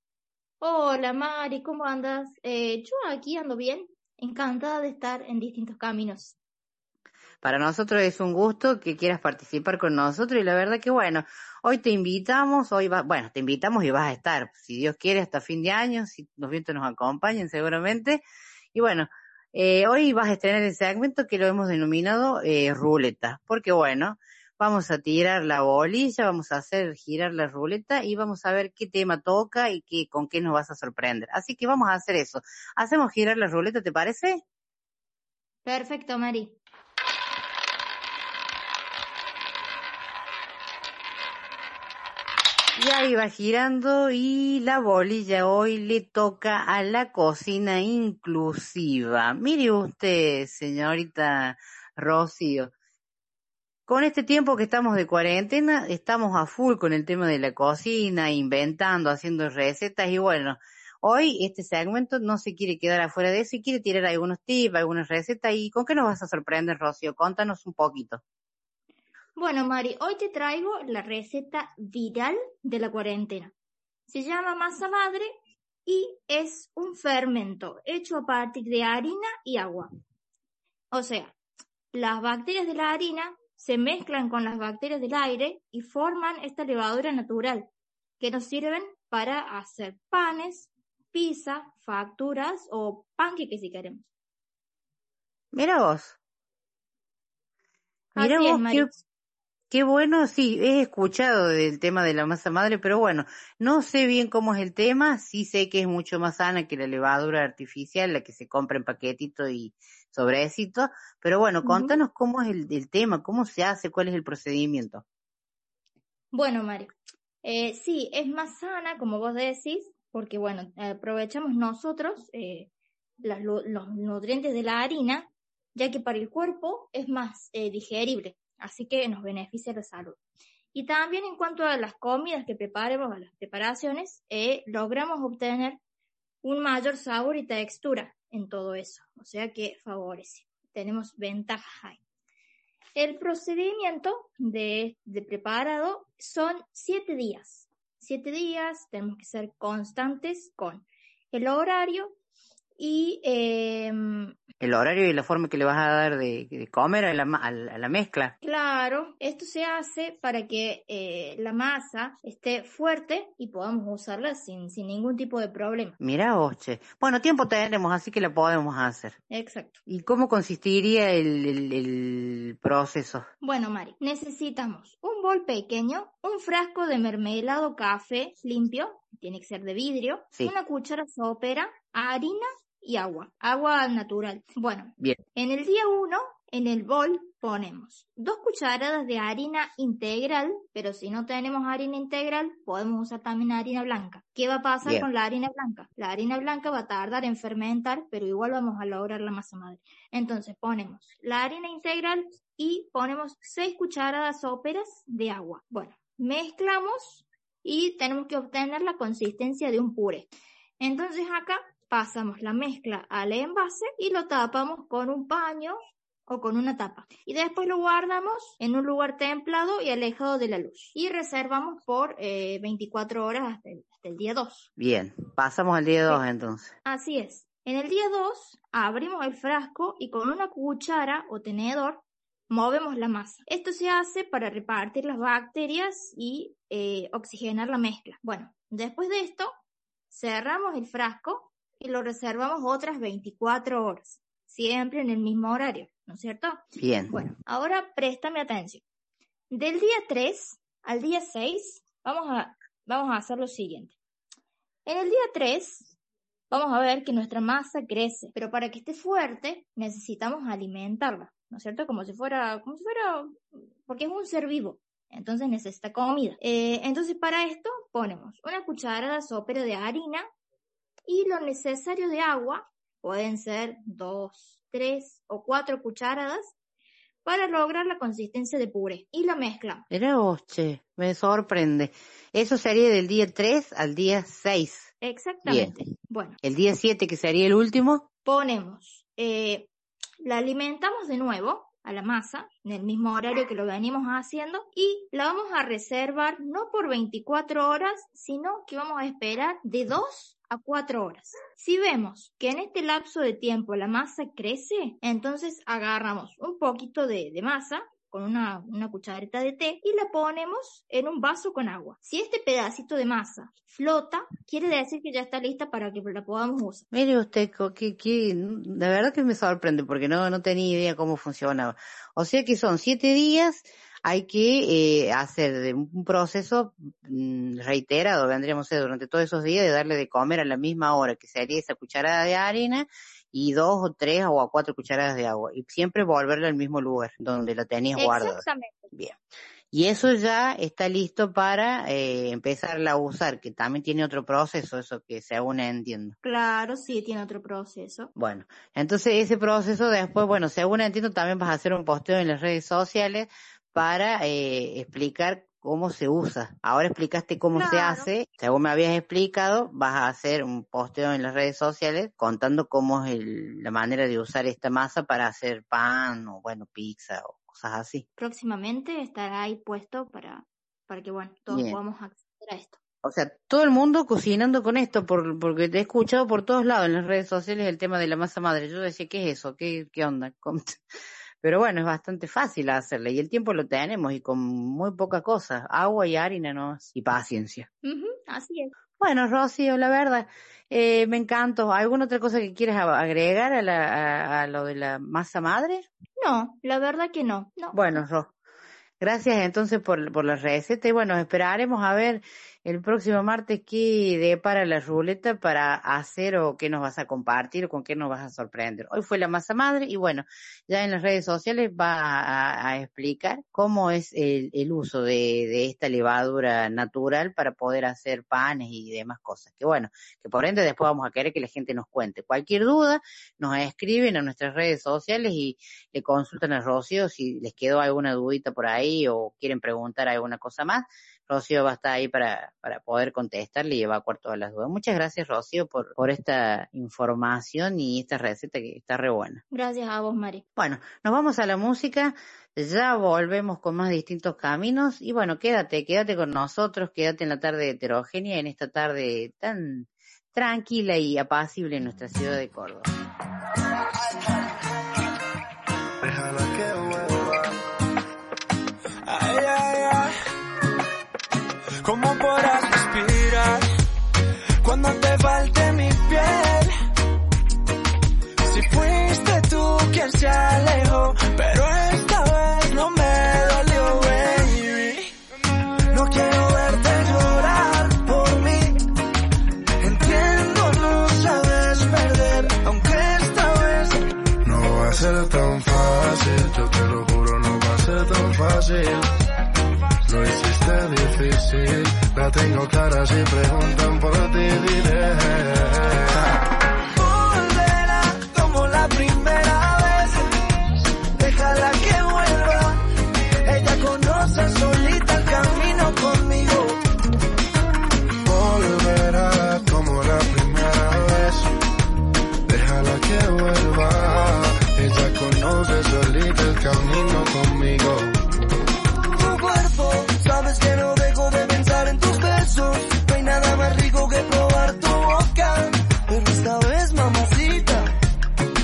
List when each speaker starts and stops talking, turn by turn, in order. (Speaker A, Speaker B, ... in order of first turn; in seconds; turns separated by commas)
Speaker A: 0.6-6.3, Speaker B: 7.4-18.2, Speaker B: 18.7-34.4, Speaker A: 35.6-36.5, Speaker B: 42.8-52.7, Speaker B: 53.9-68.2, Speaker A: 69.3-73.5, Speaker A: 74.1-75.3, Speaker A: 75.8-79.9, Speaker A: 80.9-81.3, Speaker A: 81.9-87.7, Speaker A: 88.2-94.0, Speaker B: 95.5-96.2, Speaker A: 98.2-99.0, Speaker B: 98.2-98.9, Speaker B: 99.7-115.0, Speaker A: 111.6-111.9, Speaker A: 116.3-116.9, Speaker A: 117.4-122.7, Speaker A: 123.2-130.2, Speaker A: 130.7-135.8, Speaker A: 136.4-142.0, Speaker A: 142.9-152.1, Speaker A: 152.8-154.4, Speaker B: 154.6-158.3, Speaker A: 158.4-165.9, Speaker B: 166.0-169.2, Speaker A: 169.3-169.8, Speaker B: 169.9-173.2, Speaker A: 173.4-224.7, Speaker B: 224.8-226.7, Speaker A: 226.8-239.5, Speaker A: 240.1-248.8, Speaker B: 246.8-247.1, Speaker A: 249.5-253.9, Speaker A: 254.8-255.9, Speaker A: 256.5-270.3, Speaker A: 271.1-276.5, Speaker A: 277.2-279.8, Speaker B: 279.9-284.9, Speaker A: 285.0-286.4, Speaker B: 285.4-285.7, Speaker B: 286.4-288.1, Speaker A: 288.2-289.7, Speaker A: 290.2-316.8, Speaker B: 316.9-339.1, Speaker A: 337.9-338.8, Speaker B: 339.7-346.1, Speaker A: 346.2-348.1, Speaker B: 348.1-368.1, Speaker A: 357.5-358.1, Speaker A: 368.2-372.8, Speaker B: 371.5-371.8, Speaker B: 373.0-380.7, Speaker B: 381.4-387.7, Speaker A: 387.8-388.7, Speaker B: 389.0-395.9, Speaker A: 396.2-397.8, Speaker B: 397.7-398.3, Speaker B: 399.0-439.4, Speaker A: 439.5-440.4, Speaker B: 440.6-452.9, Speaker C: 456.0-457.5, Speaker D: 459.1-459.5, Speaker D: 461.9-463.6, Speaker D: 464.6-466.7, Speaker D: 468.5-475.1, Speaker D: 475.9-478.7, Speaker D: 479.8-484.0, Speaker C: 484.4-489.1, Speaker C: 490.1-496.3, Speaker D: 497.0-500.1, Speaker D: 501.2-502.8, Speaker D: 503.5-506.8, Speaker C: 508.2-511.5, Speaker C: 512.5-518.1, Speaker D: 519.2-527.9